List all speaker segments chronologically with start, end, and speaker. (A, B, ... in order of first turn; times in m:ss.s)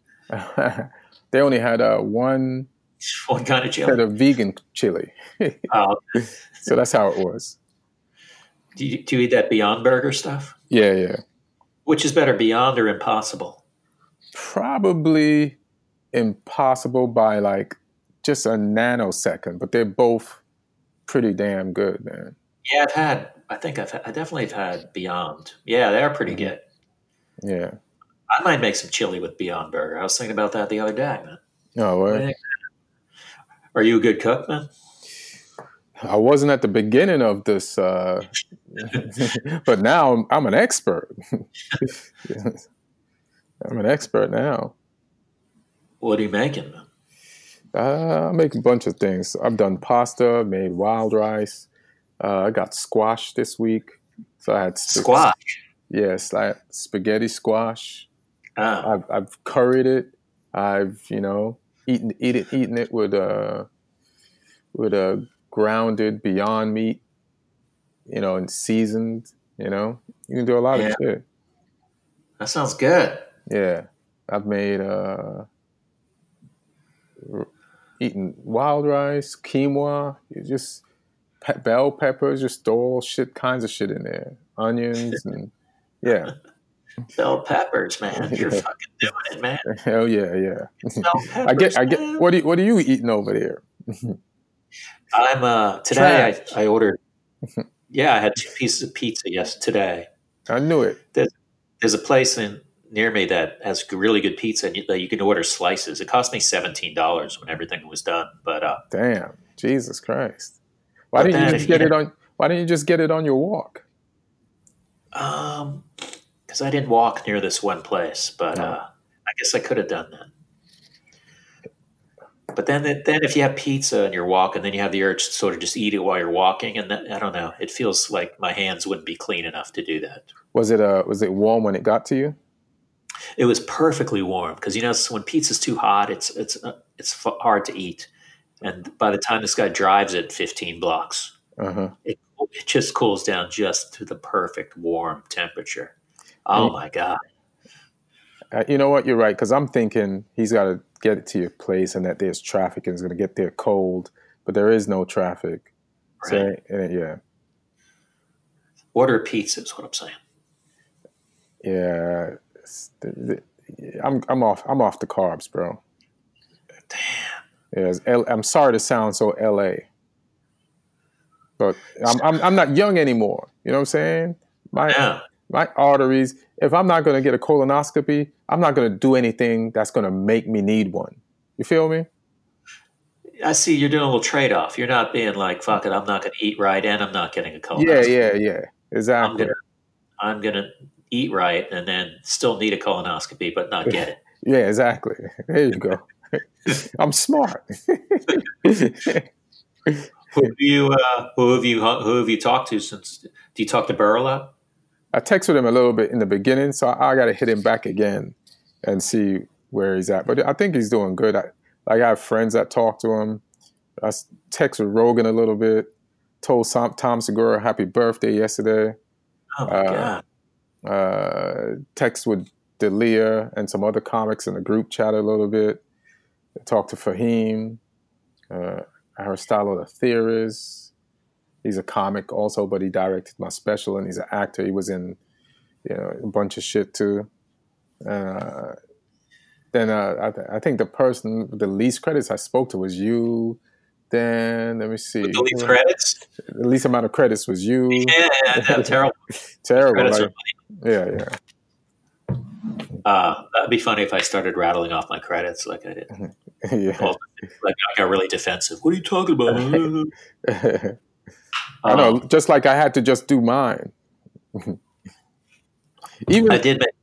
0:00.3-0:02.7 A
0:03.1-0:04.0 B
0:03.8-0:07.6 A
0:05.7-0:06.2 B
0:08.8-0:10.6 B
0:10.7-0:11.2 A
0:11.9-0:13.6 B
0:14.3-0:15.6 A
0:16.1-0:20.4 A
0:21.1-0:22.4 A
0:22.7-0:26.6 B
0:27.4-0:27.8 A
0:28.3-0:31.4 B
0:31.8-0:32.2 A
0:32.1-0:32.4 B
0:33.7-0:34.7 B
0:36.0-0:42.6 A
0:43.6-0:44.7 A
0:46.0-0:46.9 B
0:47.7-0:51.7 A
0:52.2-0:55.3 A
0:54.9-0:55.6 B
0:55.9-0:58.1 A
0:58.6-0:59.0 B
0:58.8-1:03.7 A
1:04.7-1:07.0 A
1:08.1-1:11.2 A
1:10.7-1:11.0 B
1:12.4-1:13.2 B
1:13.5-1:15.5 A
1:17.2-1:17.5 A
1:18.0-1:20.8 A
1:21.4-1:26.3 A
1:27.2-1:29.7 B
1:28.1-1:28.6 A
1:29.7-1:34.2 A
1:31.0-1:32.2 B
1:35.1-1:37.0 B
1:35.9-1:36.4 A
1:37.9-1:40.1 B
1:40.5-1:41.0 A
1:41.1-1:48.8 B
1:48.9-1:50.6 A
1:51.1-1:53.8 A
1:51.2-1:51.9 B
1:55.1-1:55.9 B
1:56.5-2:00.3 B
2:02.5-2:10.3 B
2:10.5-2:12.4 A
2:13.4-2:18.1 B
2:18.6-2:21.3 B
2:21.6-2:21.9 A
2:22.0-2:25.9 B
2:26.5-2:27.2 B
2:28.5-2:35.7 A
2:36.2-2:36.5 B
2:36.2-2:37.2 A
2:38.9-2:40.2 B
2:41.6-2:45.8 A
2:46.9-2:47.4 B
2:47.7-2:49.9 A
2:51.6-3:02.1 A
2:54.8-2:55.2 B
3:03.4-3:08.2 B
3:07.8-3:09.6 A
3:09.2-3:09.6 B
3:10.2-3:14.2 B
3:13.9-3:19.3 A
3:20.3-3:24.5 B
3:25.1-3:33.4 A
3:34.0-3:35.9 A
3:36.4-3:39.0 A
3:39.6-3:40.2 B
3:39.7-3:40.2 A
3:40.8-3:45.8 A
3:46.6-3:47.8 A
3:48.5-3:50.9 A
3:51.6-3:55.2 A
3:55.8-3:57.3 A
3:58.0-3:58.8 A
3:59.7-4:05.8 A
4:05.2-4:06.2 B
4:06.4-4:09.0 A
4:07.9-4:09.2 B
4:09.6-4:11.4 A
4:09.8-4:10.6 B
4:13.0-4:16.1 B
4:16.2-4:17.2 A
4:17.0-4:20.1 B
4:19.5-4:19.8 A
4:20.4-4:21.0 A
4:21.8-4:22.2 B
4:21.9-4:23.9 A
4:24.5-4:24.8 A
4:26.3-4:26.7 A
4:26.5-4:26.9 B